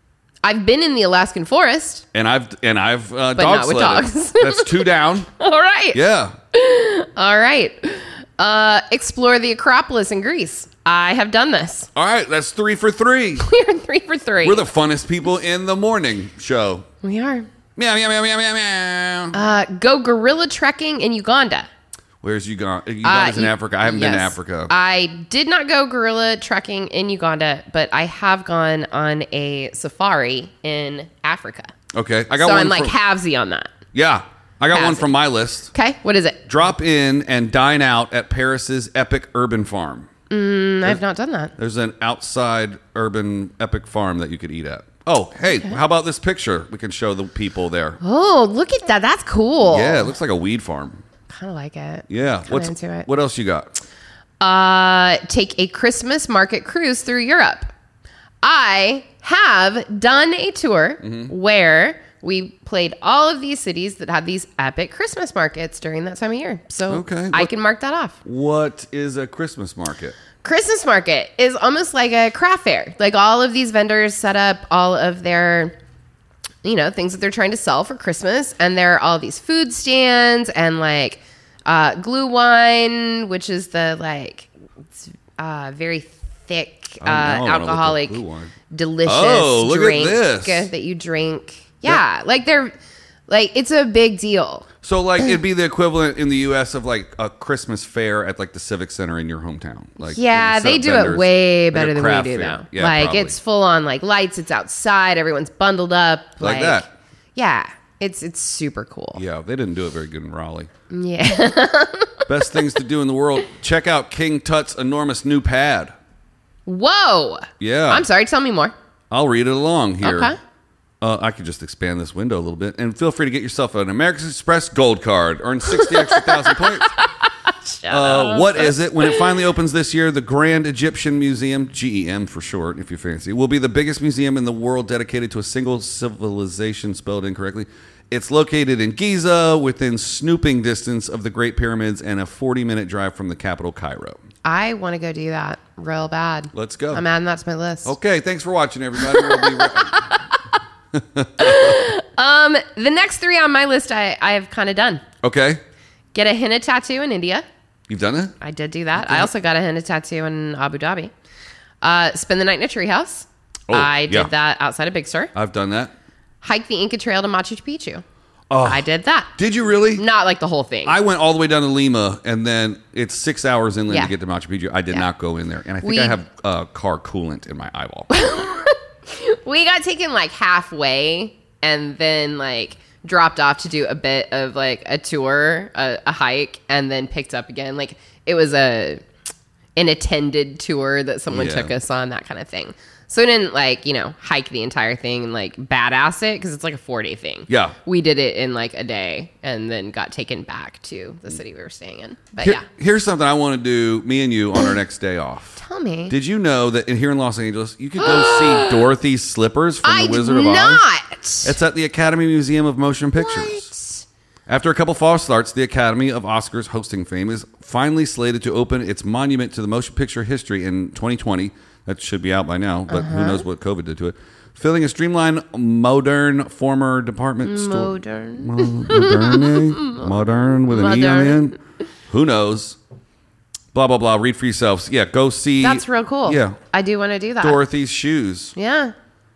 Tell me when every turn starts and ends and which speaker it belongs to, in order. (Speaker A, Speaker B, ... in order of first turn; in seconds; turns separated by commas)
Speaker A: 0.4-2.0, Speaker B: 2.1-5.3, Speaker A: 3.4-4.8, Speaker A: 5.4-6.0, Speaker B: 5.9-6.3, Speaker A: 6.5-11.9, Speaker B: 11.9-13.4, Speaker A: 13.4-14.7, Speaker B: 14.4-16.8, Speaker A: 17.0-17.5, Speaker B: 17.8-19.4, Speaker A: 19.3-21.7, Speaker B: 22.2-24.7, Speaker A: 23.0-31.7, Speaker B: 31.9-32.9, Speaker A: 32.3-33.7, Speaker B: 33.9-35.7, Speaker A: 34.7-35.1, Speaker A: 35.7-36.4, Speaker B: 36.5-40.1, Speaker A: 40.3-41.5, Speaker B: 41.6-48.0, Speaker A: 45.5-45.7, Speaker A: 48.0-50.1, Speaker B: 49.6-51.0, Speaker A: 51.3-53.1, Speaker B: 52.1-53.7, Speaker A: 54.4-57.7, Speaker A: 58.4-68.2, Speaker B: 61.0-61.3, Speaker B: 66.9-67.5, Speaker B: 68.2-70.2, Speaker A: 70.4-75.8, Speaker A: 76.6-92.8, Speaker B: 87.0-88.5, Speaker B: 89.0-90.7, Speaker A: 93.3-94.7, Speaker B: 94.8-103.3, Speaker A: 100.0-109.2, Speaker B: 106.4-106.8, Speaker B: 109.1-110.7, Speaker A: 110.9-112.2, Speaker B: 112.3-115.9, Speaker A: 116.7-118.7, Speaker B: 117.6-118.0, Speaker B: 119.1-120.3, Speaker A: 120.0-120.4, Speaker B: 121.0-126.9, Speaker A: 125.7-129.4, Speaker B: 127.9-144.2, Speaker A: 144.4-147.9, Speaker B: 146.5-147.0, Speaker B: 147.8-150.1, Speaker A: 149.0-150.2, Speaker B: 150.9-151.8, Speaker A: 151.4-155.0, Speaker B: 155.2-155.6, Speaker A: 156.1-157.4, Speaker B: 157.9-158.3, Speaker A: 158.4-161.1, Speaker B: 158.9-159.3, Speaker A: 161.8-165.3, Speaker B: 163.7-164.3, Speaker B: 165.3-165.9, Speaker A: 166.4-168.0, Speaker B: 168.5-170.0, Speaker A: 168.6-169.3, Speaker A: 169.9-170.9, Speaker B: 170.8-178.1, Speaker A: 173.9-174.1, Speaker A: 175.8-176.2, Speaker A: 178.1-189.0, Speaker A: 189.8-202.6, Speaker B: 191.3-191.7, Speaker B: 197.5-197.8, Speaker B: 202.4-210.8, Speaker A: 205.6-206.1, Speaker A: 208.0-208.9, Speaker A: 209.8-211.5, Speaker B: 211.4-213.7, Speaker A: 213.2-214.0, Speaker B: 214.5-232.8, Speaker A: 222.9-223.4, Speaker A: 227.4-231.6, Speaker B: 233.7-236.6, Speaker A: 235.6-237.6, Speaker B: 237.4-238.6, Speaker A: 238.5-238.9